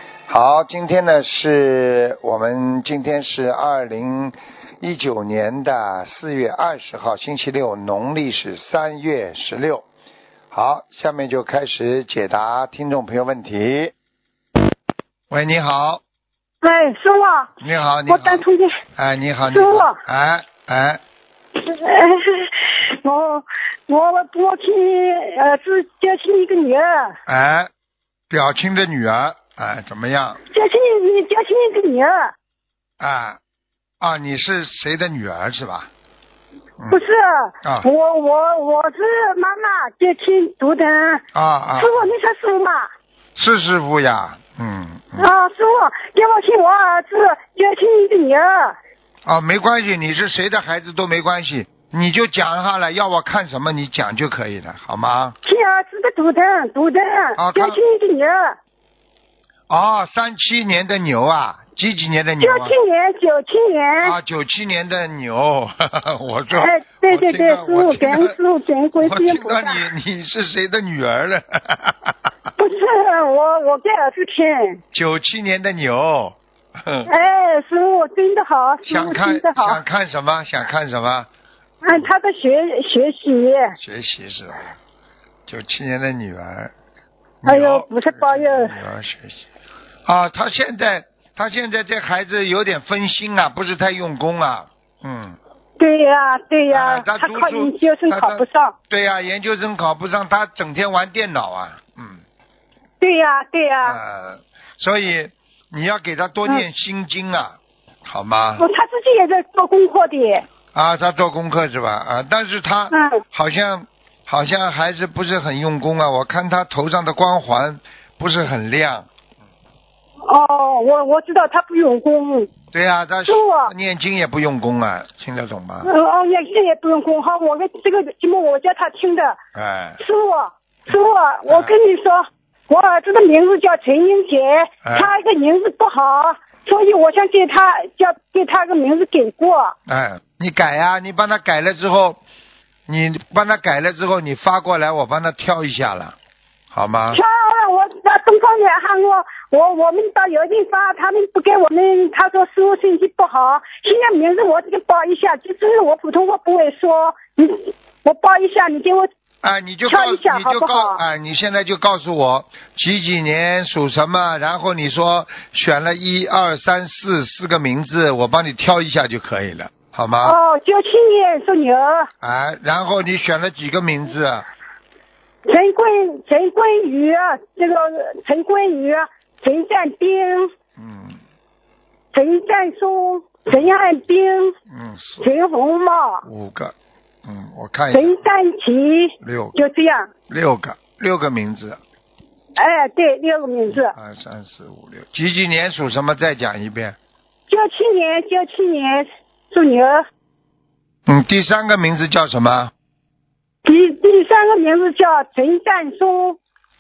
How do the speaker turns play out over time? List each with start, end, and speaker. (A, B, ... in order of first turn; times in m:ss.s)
0:00.3-0:09.8 A
0:10.5-0:13.9 A
0:15.3-0:16.0 A
0:16.6-0:17.5 B
0:17.6-0:18.4 A
0:18.1-0:18.8 B
0:19.0-0:21.0 A
0:19.5-0:20.0 B
0:21.6-0:27.2 B
0:27.3-0:27.7 A
0:28.3-0:30.4 A
0:30.5-0:32.3 B
0:33.0-0:33.4 A
0:34.0-0:35.9 A
0:36.9-0:41.2 B
0:41.3-0:42.1 A
0:41.8-0:42.9 B
0:43.4-0:45.3 A
0:45.2-0:48.8 B
0:49.2-0:55.4 A
0:55.4-0:58.6 B
0:57.4-0:57.8 A
0:59.7-1:02.7 A
1:02.4-1:04.2 B
1:04.0-1:08.3 A
1:06.5-1:09.8 B
1:09.0-1:12.1 A
1:12.6-1:14.8 B
1:14.9-1:17.1 A
1:17.1-1:19.8 B
1:18.8-1:21.3 A
1:21.8-1:23.7 B
1:23.8-1:24.7 A
1:25.5-1:26.7 A
1:27.4-1:29.4 A
1:27.4-1:28.7 B
1:30.0-1:35.4 A
1:35.8-1:38.7 B
1:36.7-1:42.2 A
1:43.0-1:44.0 B
1:43.8-1:48.6 A
1:48.6-1:50.4 B
1:50.7-1:59.1 A
1:52.9-1:53.2 B
2:00.2-2:02.5 B
2:02.7-2:05.9 A
2:03.2-2:03.7 B
2:05.8-2:09.4 B
2:09.5-2:10.0 A
2:10.0-2:19.7 B
2:10.9-2:11.7 A
2:14.8-2:15.1 A
2:19.9-2:22.2 A
2:22.9-2:26.2 A
2:26.7-2:27.2 A
2:27.1-2:39.1 B
2:39.4-2:50.4 A
2:39.9-2:41.0 B
2:50.2-2:52.1 B
2:52.2-2:54.4 A
2:55.4-3:00.5 B
3:00.8-3:01.2 A
3:02.1-3:04.5 B
3:04.7-3:05.3 A
3:05.2-3:06.2 B
3:06.2-3:06.7 A
3:07.2-3:08.3 A
3:07.9-3:10.1 B
3:09.2-3:09.6 A
3:10.3-3:11.8 A
3:12.6-3:13.9 B
3:13.7-3:17.0 A
3:17.5-3:20.0 B
3:21.1-3:22.7 A
3:23.6-3:26.4 B